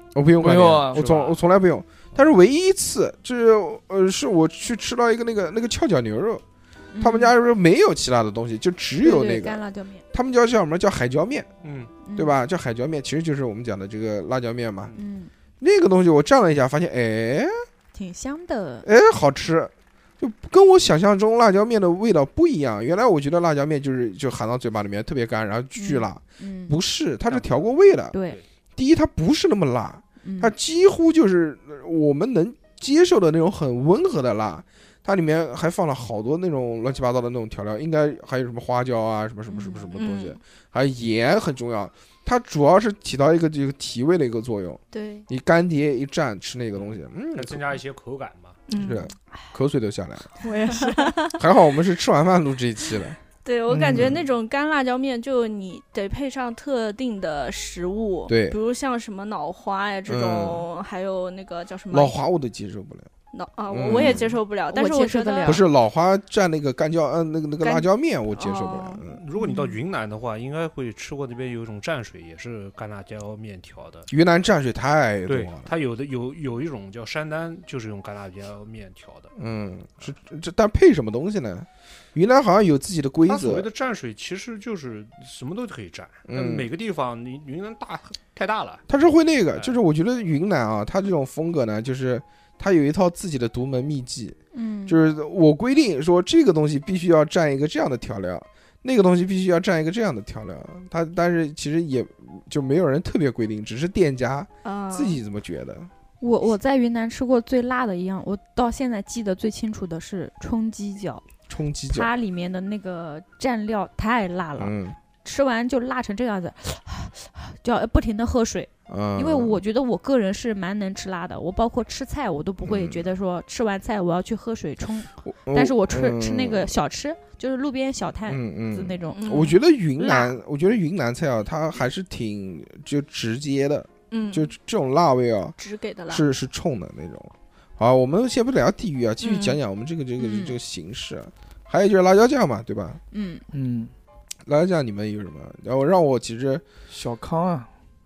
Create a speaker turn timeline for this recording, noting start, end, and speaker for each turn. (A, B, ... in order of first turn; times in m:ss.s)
0:00.1-0:06.4 A
0:00.4-0:01.0 B
0:00.9-0:01.4 C
0:06.9-0:07.3 D
0:07.0-0:09.6 A
0:09.0-0:10.0 D
0:10.1-0:11.5 A
0:11.6-0:11.9 C
0:12.0-0:12.3 D
0:12.2-0:14.9 A
0:15.0-0:15.3 D
0:15.6-0:17.5 A
0:17.9-0:18.8 D
0:18.8-0:28.2 A
0:25.8-0:26.8 D
0:27.3-0:27.7 C
0:28.1-0:28.4 D
0:28.8-0:47.7 A
0:30.2-0:30.5 D
0:39.5-0:39.8 D
0:39.9-0:40.4 E
0:44.9-0:45.2 E
0:47.3-0:48.6 C
0:48.7-0:49.1 E
0:48.8-0:50.3 A
0:50.4-0:51.3 D
0:50.7-0:51.3 E
0:51.3-0:53.2 A
0:53.4-1:02.2 E
0:53.7-0:54.1 B
0:53.9-0:54.2 A
0:58.3-0:58.6 A
1:00.1-1:00.7 A
1:01.9-1:03.1 A
1:03.3-1:05.6 E
1:03.7-1:04.4 A
1:03.9-1:05.6 D
1:05.4-1:09.2 A
1:07.6-1:09.0 E
1:09.1-1:14.1 C
1:09.4-1:09.8 D
1:14.1-1:15.7 A
1:15.3-1:19.3 C
1:19.4-1:23.7 A
1:23.2-1:28.8 C
1:26.3-1:26.7 A
1:28.9-1:45.9 A
1:34.5-1:35.0 D
1:44.6-1:45.2 E
1:46.2-1:51.2 D
1:51.5-1:52.1 A
1:51.9-2:09.2 D
1:54.6-1:55.0 A
1:58.9-1:59.6 A
2:02.6-2:03.1 A
2:05.2-2:06.7 A
2:08.3-2:15.6 A
2:09.1-2:09.6 E
2:10.0-2:10.4 D
2:14.1-2:14.5 E
2:15.6-2:16.2 E
2:16.1-2:23.0 A
2:19.2-2:19.6 E
2:20.2-2:20.6 D
2:23.1-2:23.4 D
2:23.5-2:23.9 B
2:24.4-2:26.6 A
2:26.9-2:27.7 B